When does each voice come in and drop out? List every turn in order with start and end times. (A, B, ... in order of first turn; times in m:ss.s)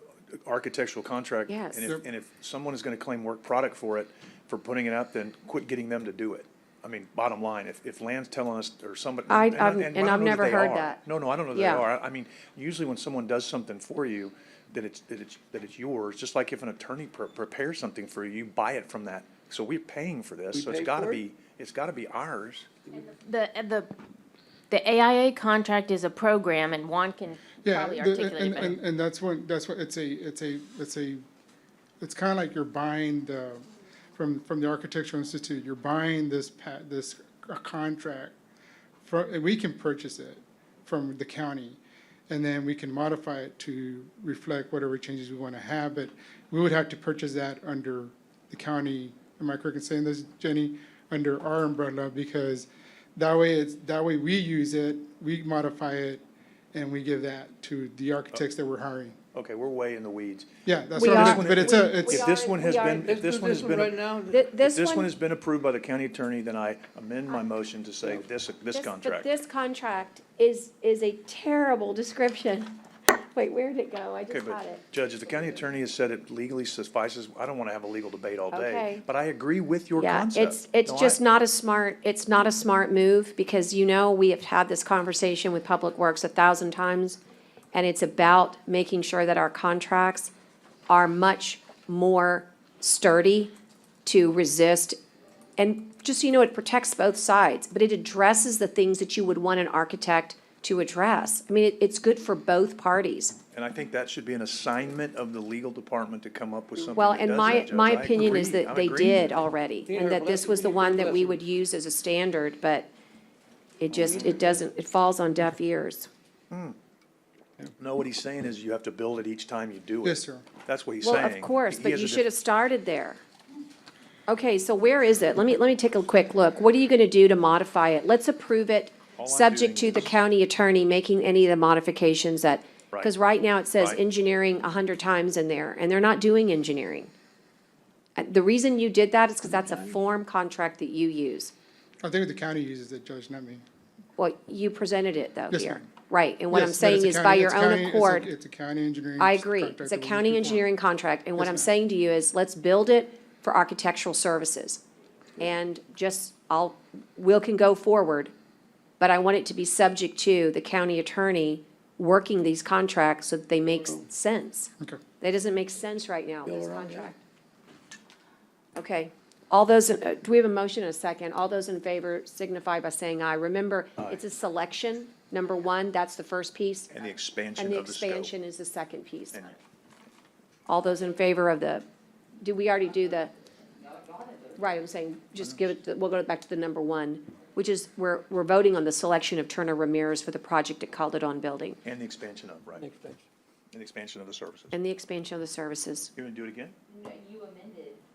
0:00.4-0:22.7 A
0:01.5-0:01.9 B
0:09.3-0:11.0 B
0:11.5-0:11.8 B
0:20.5-0:21.2 C
0:23.2-0:23.9 D
0:24.7-0:28.8 D
0:27.6-0:31.2 E
0:32.0-0:38.3 E
0:39.0-0:56.2 E
0:56.7-0:59.2 E
0:59.3-1:04.0 A
1:00.6-1:02.3 E
1:01.0-1:03.1 B
1:02.9-1:04.4 C
1:04.3-1:05.1 B
1:04.6-1:09.3 A
1:08.7-1:12.8 B
1:13.3-1:14.8 B
1:14.3-1:21.2 A
1:18.5-1:19.0 B
1:20.0-1:27.2 B
1:27.7-1:30.3 B
1:30.9-1:33.5 B
1:34.0-1:35.0 B
1:35.6-1:43.4 B
1:43.5-1:49.4 A
1:46.9-1:52.9 B
1:49.8-1:51.4 C
1:53.8-1:56.1 B
1:54.0-1:54.4 C
1:56.5-1:56.8 A
1:57.8-2:02.3 A
2:00.0-2:00.4 E
2:01.0-2:03.2 B
2:04.3-2:17.1 B
2:09.2-2:10.2 A
2:18.2-2:21.5 B
2:22.0-2:23.6 E
2:24.2-2:28.3 B
2:25.5-2:25.9 E
2:26.5-2:30.7 E
2:29.2-2:34.8 B
2:31.4-2:31.7 E
2:35.4-2:38.3 B
2:39.0-2:47.2 B
2:46.4-2:47.1 C
2:48.8-2:56.9 B
2:54.0-2:54.2 A
2:56.9-2:58.3 A
2:57.6-2:59.4 B
2:59.3-2:59.6 A
3:00.7-3:01.8 B
3:02.4-3:03.3 B
3:03.0-3:04.7 F
3:04.6-3:11.8 B
3:05.4-3:05.7 A
3:11.8-3:12.9 A
3:12.8-3:13.2 C
3:13.7-3:14.8 A
3:14.7-3:16.1 B
3:16.2-3:16.7 A
3:16.9-3:18.0 F